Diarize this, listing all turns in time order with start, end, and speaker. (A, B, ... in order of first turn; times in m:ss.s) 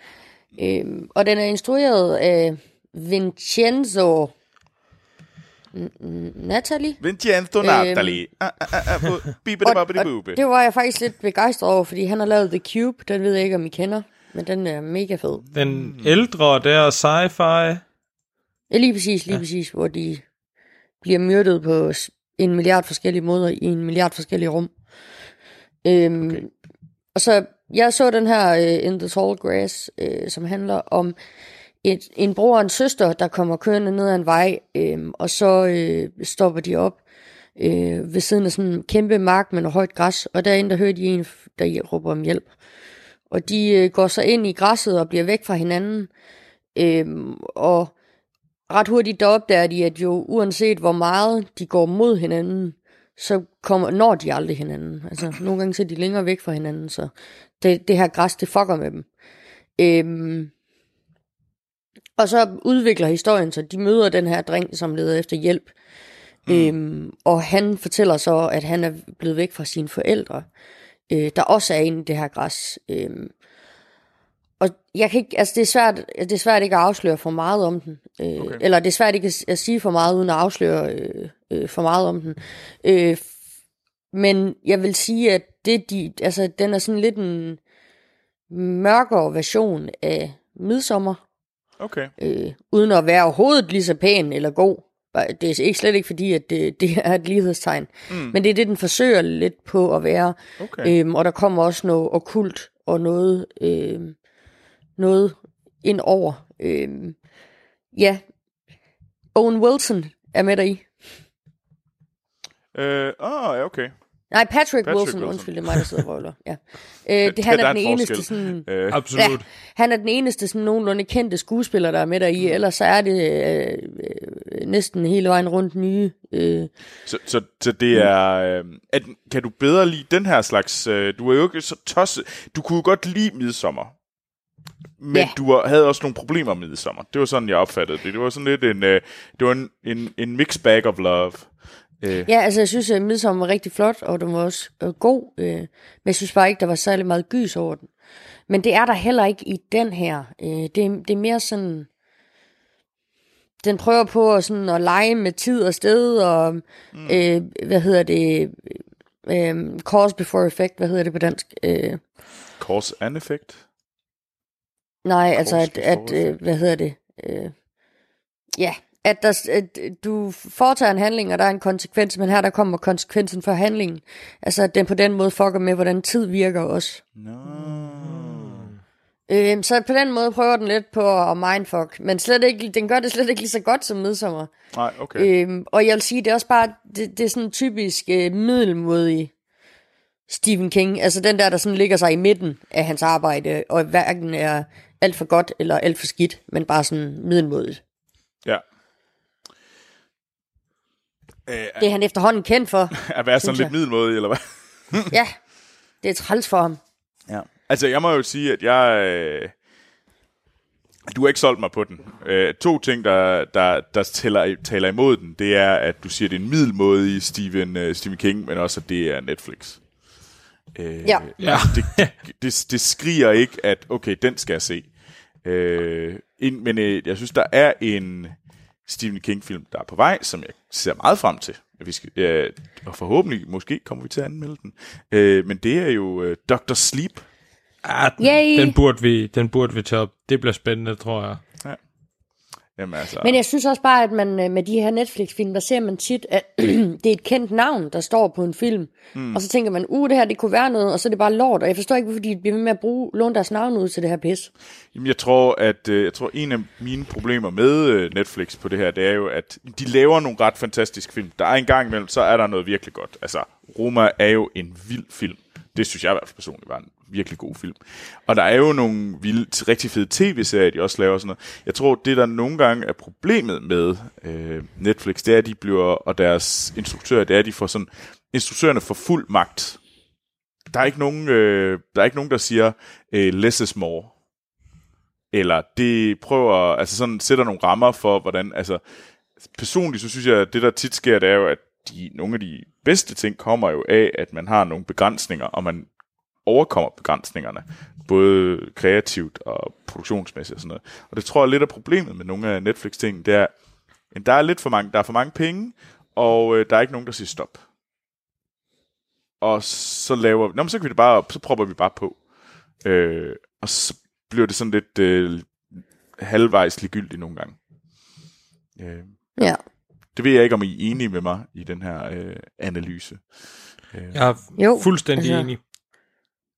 0:00.6-0:04.3 A
0:05.7-0:07.0 A
0:07.0-0:10.4 B
0:07.6-0:08.2 A
0:09.6-0:15.4 A
0:15.4-0:16.1 B
0:15.5-0:17.8 C
0:18.7-0:20.2 A
0:21.0-0:24.7 A
0:25.8-0:26.5 A
0:27.1-0:31.2 A
0:31.8-0:37.0 A
0:37.6-0:42.5 A
0:43.3-0:46.1 A
0:46.8-0:47.9 A
0:48.7-0:59.0 A
0:59.8-1:00.5 A
1:02.2-1:05.7 A
1:06.4-1:06.7 B
1:06.4-1:10.5 A
1:11.1-1:13.3 A
1:14.6-1:23.3 A
1:18.4-1:18.6 B
1:24.1-1:27.6 A
1:28.5-1:31.2 A
1:31.8-1:32.1 B
1:32.2-1:44.2 A
1:38.1-1:38.4 B
1:40.6-1:40.9 B
1:45.0-1:47.2 A
1:47.9-1:48.2 A
1:49.3-1:50.9 A
1:52.7-1:53.9 B
1:54.3-2:06.7 A
1:54.8-1:55.8 B
1:57.2-1:59.0 B
1:58.9-1:59.4 C
2:07.0-2:13.9 B
2:15.0-2:21.5 B
2:22.0-2:22.3 B
2:22.2-2:27.9 A
2:28.5-2:31.9 A
2:33.6-2:42.0 A
2:36.9-2:37.2 B
2:42.6-2:43.6 B
2:45.0-2:47.5 A
2:45.3-2:46.4 B
2:48.6-2:57.0 A
2:57.2-2:58.7 B
2:58.0-2:58.7 C
2:59.3-3:04.5 A
3:04.7-3:05.3 B
3:05.1-3:09.3 A
3:10.3-3:17.8 A
3:21.4-3:21.8 B
3:21.8-3:23.7 A
3:22.9-3:25.1 B
3:25.1-3:25.3 A
3:26.0-3:26.8 A
3:27.3-3:29.5 B
3:31.1-3:39.8 B
3:40.7-3:44.9 B
3:41.4-3:42.1 C
3:45.4-3:57.2 B
3:57.8-4:01.4 C
3:58.2-3:58.8 A
4:02.8-4:03.4 B
4:03.2-4:14.5 A
4:09.1-4:09.4 B
4:14.9-4:39.8 B
4:40.7-4:44.1 B
4:45.3-4:48.8 B
4:49.4-4:55.9 B
4:56.4-5:03.5 B
5:04.1-5:07.6 B
5:09.4-5:12.2 B
5:12.8-5:17.6 B
5:18.8-5:19.1 B
5:20.1-5:23.2 B
5:23.9-5:24.2 B
5:24.1-5:25.6 C
5:24.6-5:25.5 A